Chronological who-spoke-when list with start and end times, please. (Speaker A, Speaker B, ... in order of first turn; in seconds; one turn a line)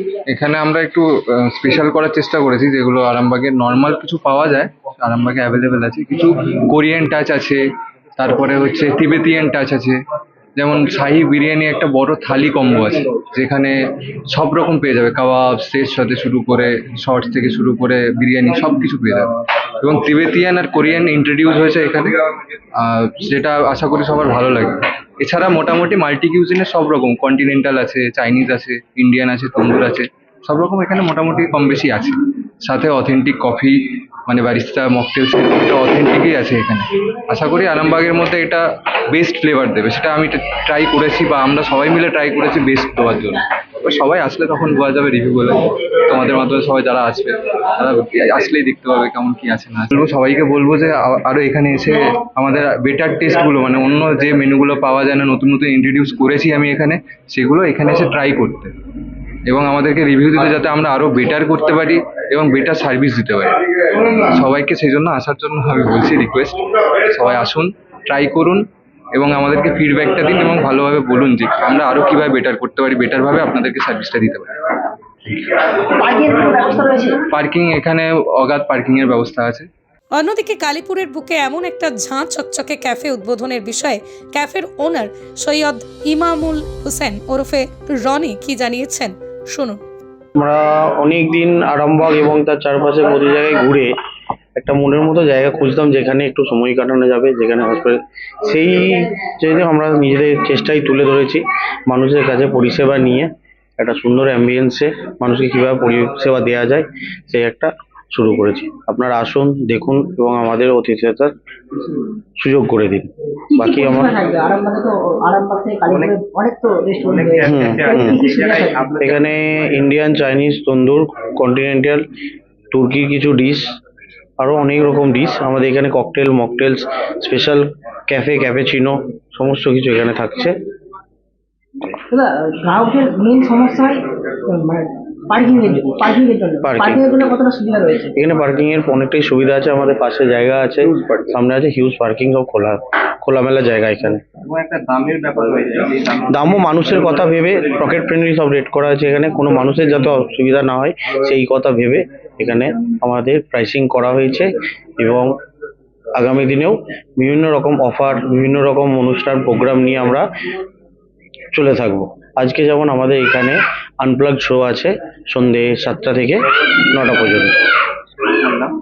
Speaker A: 0.2-7.6
Speaker A: 8.2-10.0
Speaker A: 10.6-19.3
Speaker A: 19.8-22.2
Speaker A: 22.7-58.7
Speaker A: 59.5-74.8
Speaker B: 75.3-77.2
Speaker A: 77.3-79.7
Speaker C: 80.2-89.8
Speaker D: 90.3-93.9
Speaker D: 94.6-111.3
Speaker D: 112.4-114.1
Speaker B: 113.5-119.0
Speaker D: 117.4-118.3
Speaker D: 119.0-122.1
Speaker D: 122.7-123.8
Speaker D: 124.4-130.6
Speaker B: 131.9-138.1
Speaker D: 136.6-137.0
Speaker D: 138.1-144.2
Speaker A: 144.4-146.3
Speaker D: 146.3-155.4
Speaker D: 156.2-160.3
Speaker D: 161.5-167.6
Speaker D: 168.2-168.7